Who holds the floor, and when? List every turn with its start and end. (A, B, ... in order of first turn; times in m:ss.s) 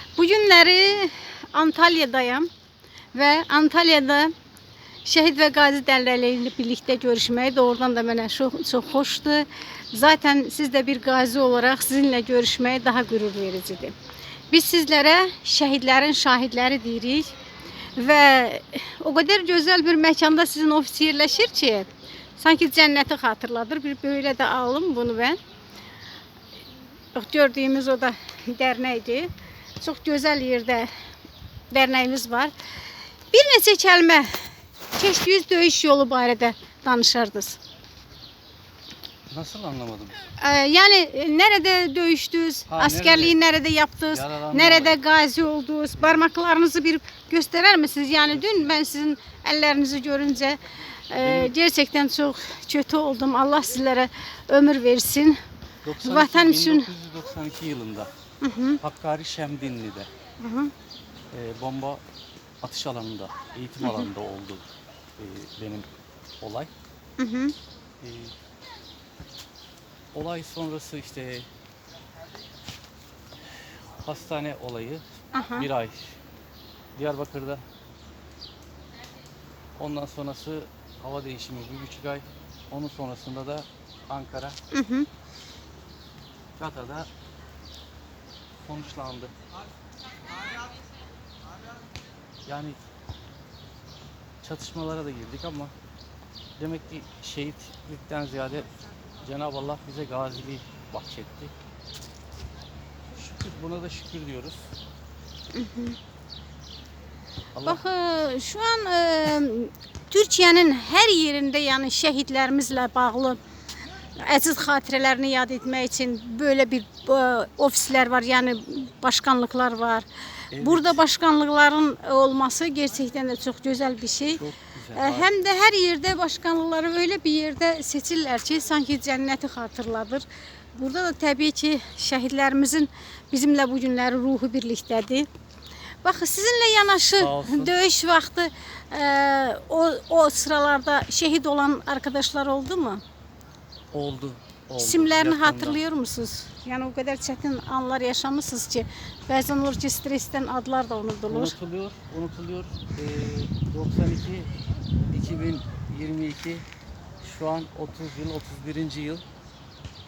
0:00.2-0:02.5 A
0:03.1-0:04.3 A
0:05.0-0:14.0 A
0:14.5-0:17.3 A
0:18.0-0:25.4 A
0:27.2-0:30.9 A
0:31.7-0:32.5 A
0:33.3-0:34.4 A
0:35.0-0:37.6 A
0:39.3-0:40.2 B
0:40.4-0:55.4 A
0:42.7-0:43.4 B
0:44.1-0:45.0 B
0:48.2-0:48.8 B
0:51.2-0:51.5 B
0:55.8-0:58.1 B
0:56.0-0:56.9 A
0:58.4-0:58.8 A
0:58.8-1:00.1 B
1:00.4-1:00.7 A
1:01.3-1:02.0 B
1:02.6-1:04.6 B
1:03.8-1:04.1 A
1:05.2-1:05.9 B
1:06.4-1:06.7 B
1:07.2-1:07.6 A
1:08.0-1:08.3 B
1:10.1-1:11.5 B
1:14.0-1:15.0 B
1:15.3-1:15.7 A
1:15.6-1:16.2 B
1:17.0-1:17.6 B
1:19.8-1:24.6 B
1:24.7-1:25.1 A
1:26.6-1:27.1 B
1:28.6-1:29.3 B
1:32.5-1:32.8 B
1:34.4-1:35.7 B
1:36.6-1:38.7 B
1:39.2-1:41.5 B
1:43.2-1:44.7 B
1:45.5-1:46.0 A
1:47.6-1:47.8 B
1:47.6-1:53.4 A
1:54.2-2:04.4 A
2:00.5-2:01.0 B
2:04.3-2:05.3 B
2:05.0-2:15.3 A
2:16.0-2:23.0 A
2:17.2-2:17.8 B
2:23.9-2:25.8 B
2:24.8-2:31.6 A
2:31.3-2:34.5 B
2:35.1-2:36.7 B
2:37.2-2:39.2 B